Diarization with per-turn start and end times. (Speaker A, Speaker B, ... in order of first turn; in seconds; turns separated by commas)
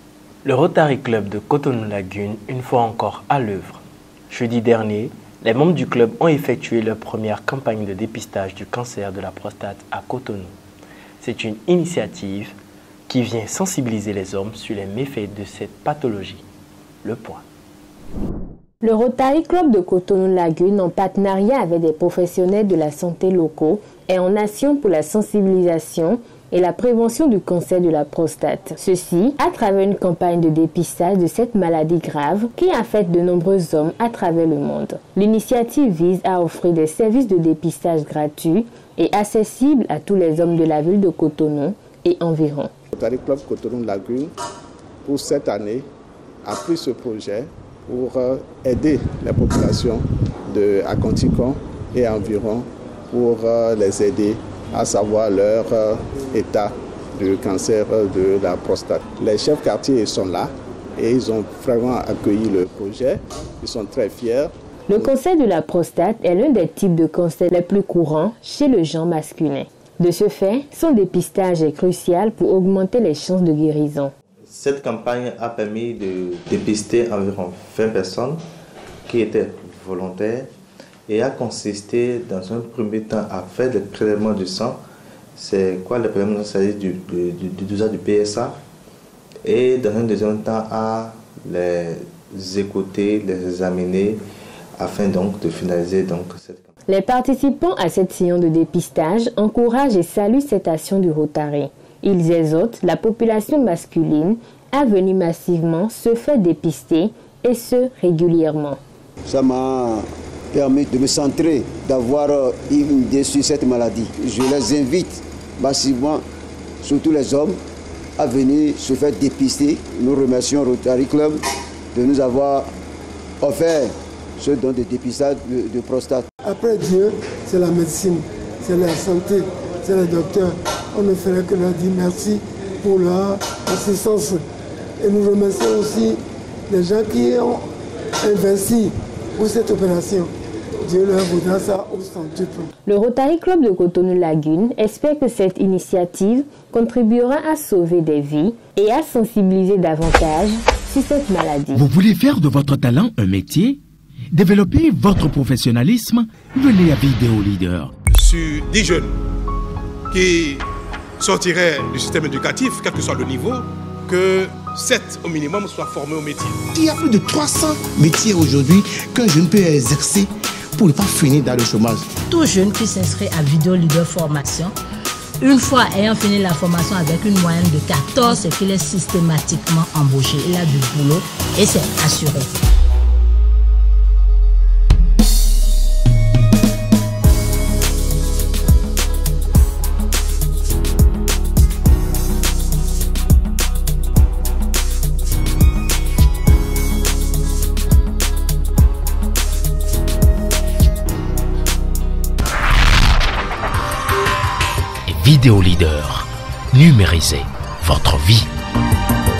Speaker A: 0.4-10.5, Speaker A: 11.2-12.5, Speaker A: 13.1-16.4, Speaker A: 17.0-17.4, Speaker B: 18.8-42.7, Speaker C: 42.9-44.3, Speaker C: 45.0-45.9, Speaker C: 46.4-65.1, Speaker B: 64.9-74.1, Speaker D: 74.5-78.4, Speaker D: 79.1-80.5, Speaker D: 81.1-84.8, Speaker D: 85.4-88.6, Speaker D: 89.4-94.2, Speaker D: 94.8-96.7, Speaker B: 96.9-108.8, Speaker E: 109.3-116.2, Speaker E: 116.8-117.6, Speaker E: 118.2-121.4, Speaker E: 121.9-122.7, Speaker E: 123.4-126.3, Speaker F: 126.4-134.4, Speaker F: 135.0-137.6, Speaker F: 138.2-140.3, Speaker F: 140.8-142.7, Speaker B: 142.9-151.8, Speaker G: 151.8-153.8, Speaker G: 154.3-157.9, Speaker H: 158.1-159.1, Speaker H: 160.1-160.6, Speaker H: 161.2-166.7, Speaker I: 166.7-172.1, Speaker J: 172.2-174.8, Speaker J: 175.4-182.5, Speaker G: 205.1-208.5